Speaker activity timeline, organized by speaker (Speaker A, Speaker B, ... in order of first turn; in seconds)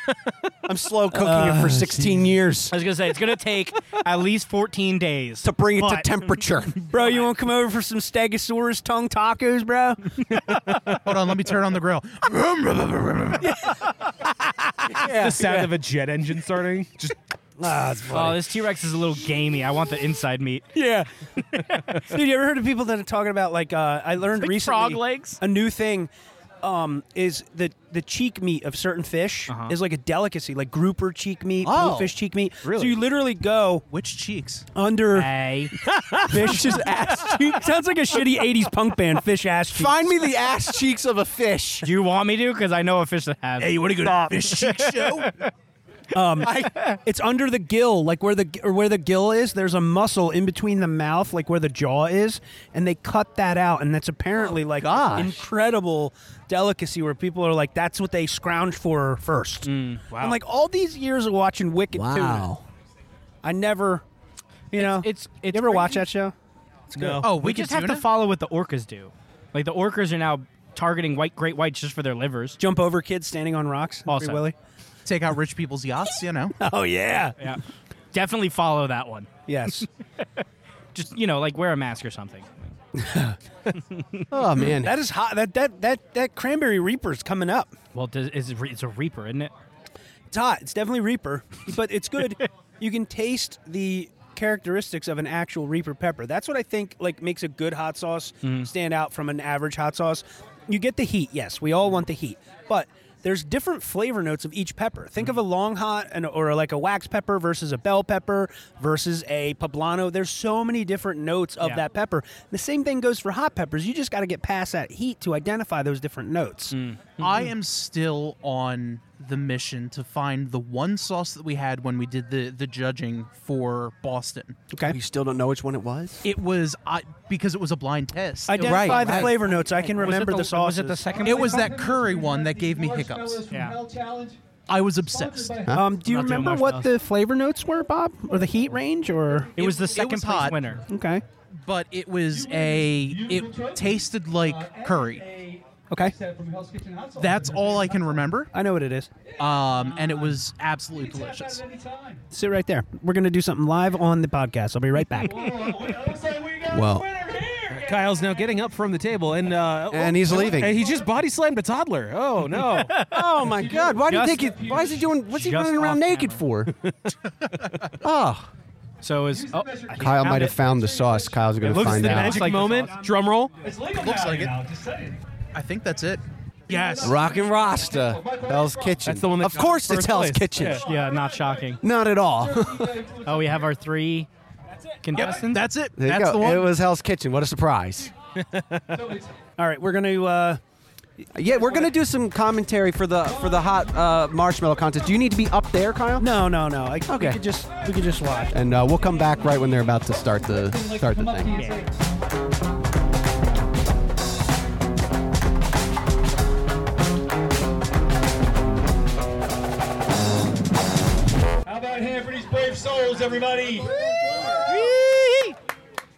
Speaker A: 0.7-2.8, 5.4-6.8, 31.6-32.1, 36.3-37.4, 39.7-41.9, 54.7-55.4, 61.9-62.6, 83.0-83.3, 84.3-85.0, 124.8-126.2, 128.6-129.4, 156.7-157.1, 159.9-160.8, 163.1-166.7, 168.0-168.5, 170.0-172.5, 177.0-180.8, 181.8-183.0, 186.0-188.1, 191.3-196.4, 197.1-197.4, 198.5-201.5
Speaker B: 1.1-2.3, 6.9-10.2, 14.9-15.7, 17.6-18.4, 20.8-21.1, 22.0-26.1, 26.6-33.8, 34.7-35.3, 35.9-40.1, 46.1-62.5, 63.4-64.0, 64.7-66.3, 66.9-67.3, 72.6-74.5, 76.6-77.5, 79.5-79.9, 84.6-87.7, 90.3-116.8, 124.7-125.0, 128.5-131.3, 135.7-139.5, 140.9-141.2, 148.5-149.1, 152.3-155.6, 172.2-172.7, 189.6-190.6, 196.2-198.6
Speaker C: 2.7-7.2, 18.1-20.8, 21.5-22.0, 24.4-25.4, 29.5-29.8, 35.1-35.7, 41.8-45.5, 46.5-47.0, 59.6-60.0, 64.7-66.1, 67.3-72.6, 74.1-74.5, 78.1-79.9, 80.9-82.6, 83.9-84.2, 87.9-89.5, 98.4-98.7, 116.7-117.5, 128.5-131.7, 133.5-133.8, 136.0-136.9, 139.6-140.8, 162.6-163.3, 164.0-164.6, 165.2-166.4, 169.0-170.6, 171.6-172.9, 180.8-181.8, 183.2-184.3, 185.0-185.7, 201.5-201.8, 214.4-215.6
Speaker D: 11.0-13.6, 33.9-34.7, 43.6-45.3, 67.2-68.0, 75.1-76.5, 117.2-124.6, 126.2-129.2, 131.2-133.4, 134.7-135.6, 139.6-140.6, 141.7-145.2, 147.2-148.5, 149.4-151.6, 173.9-174.5, 175.5-177.2, 185.2-186.7
Speaker E: 15.0-17.1, 60.1-60.4, 66.9-67.3, 157.7-163.1, 171.8-173.6, 179.1-180.8, 188.4-188.9
Speaker F: 131.1-134.4, 135.0-135.8, 139.3-140.8, 142.3-148.4, 149.3-152.2, 155.2-158.7, 160.3-161.2, 163.4-165.1, 169.3-173.1, 173.6-175.2, 176.7-179.9, 180.6-183.8, 184.7-185.5, 188.9-189.4, 191.4-192.0, 193.2-194.0, 200.5-202.0, 211.6-213.9